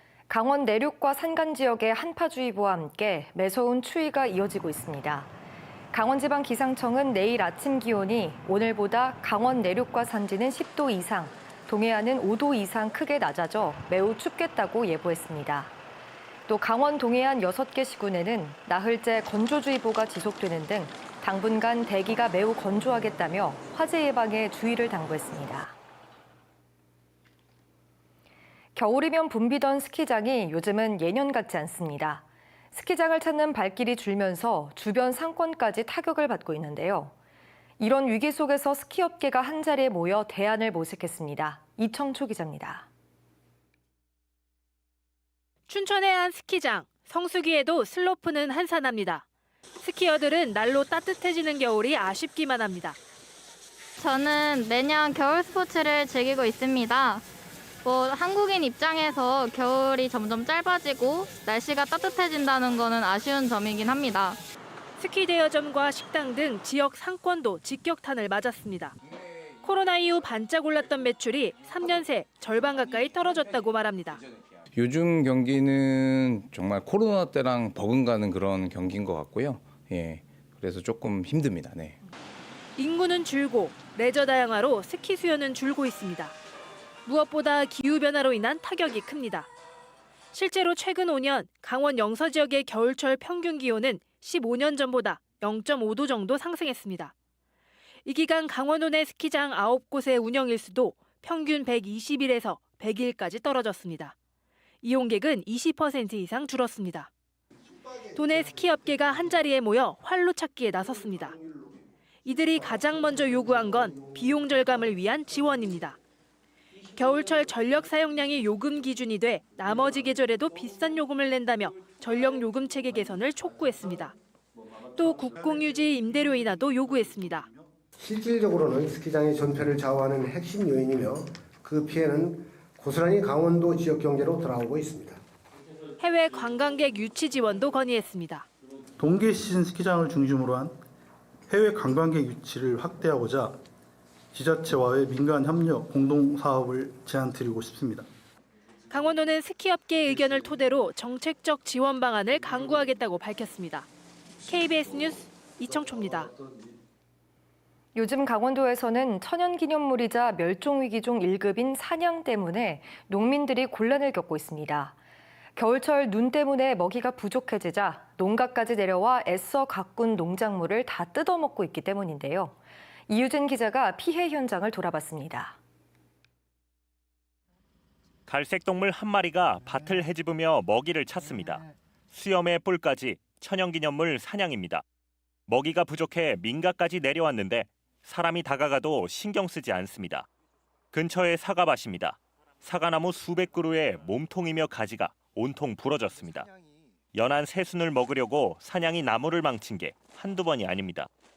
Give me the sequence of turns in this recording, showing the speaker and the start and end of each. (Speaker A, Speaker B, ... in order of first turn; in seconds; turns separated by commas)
Speaker A: 0.3-5.3, Speaker A: 5.9-15.7, Speaker A: 16.5-25.8, Speaker A: 28.8-37.1, Speaker A: 37.8-42.9, Speaker B: 45.7-49.2, Speaker B: 49.8-53.0, Speaker C: 54.0-57.2, Speaker C: 57.9-64.4, Speaker B: 65.0-69.0, Speaker B: 69.6-74.2, Speaker D: 74.7-82.0, Speaker B: 82.8-86.3, Speaker B: 87.1-89.5, Speaker B: 90.3-97.1, Speaker B: 98.1-104.1, Speaker B: 104.8-107.1, Speaker B: 108.1-111.4, Speaker B: 112.2-116.0, Speaker B: 116.9-124.2, Speaker B: 125.0-127.5, Speaker E: 128.0-135.2, Speaker B: 136.0-138.5, Speaker F: 139.0-140.8, Speaker F: 141.5-143.6, Speaker F: 144.3-148.1, Speaker B: 148.9-153.9, Speaker B: 154.4-156.3, Speaker A: 157.9-165.0, Speaker A: 165.6-172.6, Speaker A: 173.1-175.6, Speaker G: 178.3-184.8, Speaker G: 185.5-190.3, Speaker G: 190.9-196.5, Speaker G: 197.1-201.1